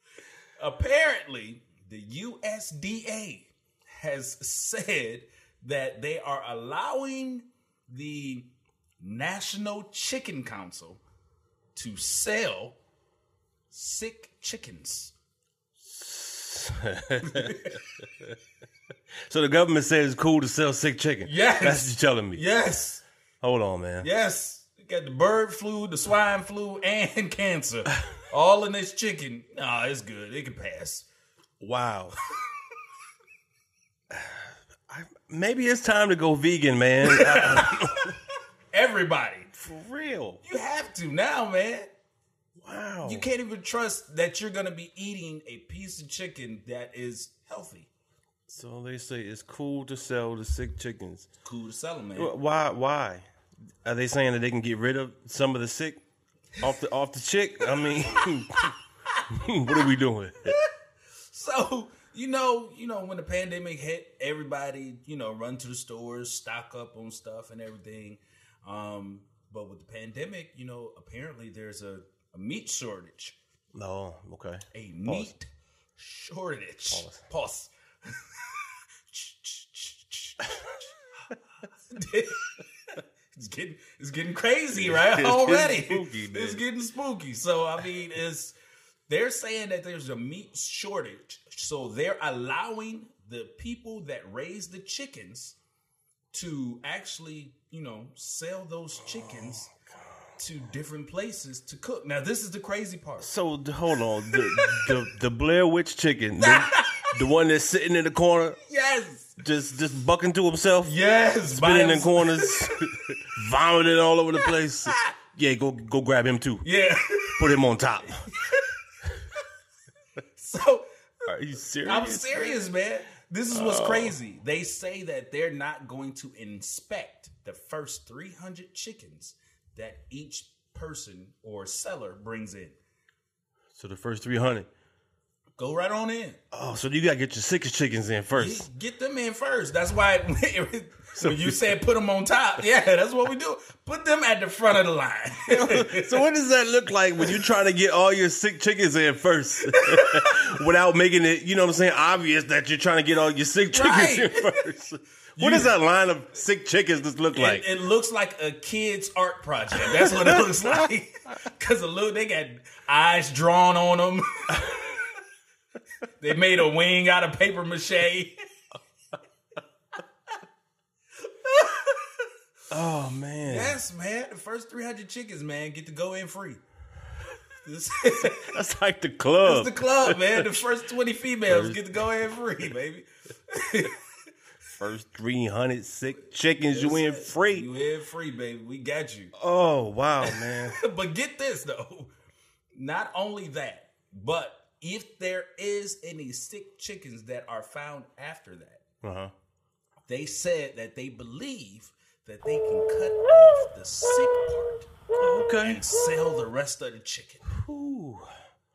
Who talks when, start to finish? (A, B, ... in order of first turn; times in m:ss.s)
0:00.6-0:08.5 A
0:09.0-0:11.0 A
0:11.7-0:12.8 A
0:13.7-0:15.1 A
0:15.8-0:18.3 B
0:17.2-0:17.8 A
0:19.3-0:22.4 B
0:21.2-0:23.0 A
0:23.4-0:24.1 B
0:24.0-0:31.0 A
0:31.6-0:32.2 B
0:34.1-0:38.2 B
0:37.0-0:39.5 A
0:39.5-0:40.4 B
0:40.4-0:41.9 A
0:42.6-0:43.3 B
0:43.0-0:47.9 A
0:48.5-0:51.3 B
0:51.4-0:52.3 A
0:52.2-0:53.2 B
0:53.8-0:56.0 B
0:56.6-0:58.8 B
0:58.2-0:59.9 A
0:59.3-1:00.6 B
1:01.3-1:13.4 A
1:13.7-1:15.3 B
1:14.7-1:20.9 A
1:16.9-1:17.2 B
1:21.9-1:28.6 A
1:24.7-1:26.6 B
1:29.1-1:35.6 A
1:36.3-1:39.7 A
1:39.1-1:39.6 B
1:40.4-1:43.3 A
1:43.2-1:48.6 B
1:44.3-1:44.9 A
1:46.4-1:47.1 A
1:48.7-1:49.4 A
1:49.4-1:56.6 B
1:50.8-1:52.8 A
1:56.6-1:57.5 A
1:57.4-1:58.2 B
1:58.3-1:58.7 A
2:00.4-2:00.8 A
2:01.3-2:02.7 B
2:01.8-2:12.8 A
2:03.5-2:04.2 B
2:13.7-2:14.7 B
2:15.6-2:16.4 A
2:16.5-2:18.7 B
2:18.3-2:26.2 A
2:21.2-2:21.8 B
2:25.5-2:37.6 B
2:29.7-2:30.4 A
2:33.7-2:34.5 A
2:35.4-2:35.7 A
2:37.3-2:45.1 A
2:39.8-2:40.7 B
2:46.2-2:48.4 A
2:51.3-2:52.3 A
2:52.7-2:53.7 B
2:53.4-2:56.6 A
2:57.6-2:58.5 A
2:58.2-3:00.6 B
2:59.4-3:04.0 A
3:01.5-3:02.0 B
3:04.8-3:07.7 B
3:06.6-3:09.3 A
3:09.3-3:10.8 B
3:10.2-3:12.1 A
3:12.7-3:18.8 A
3:19.0-3:19.3 B
3:20.1-3:24.9 A
3:25.2-3:25.8 B
3:25.6-3:27.4 A
3:27.4-3:28.3 B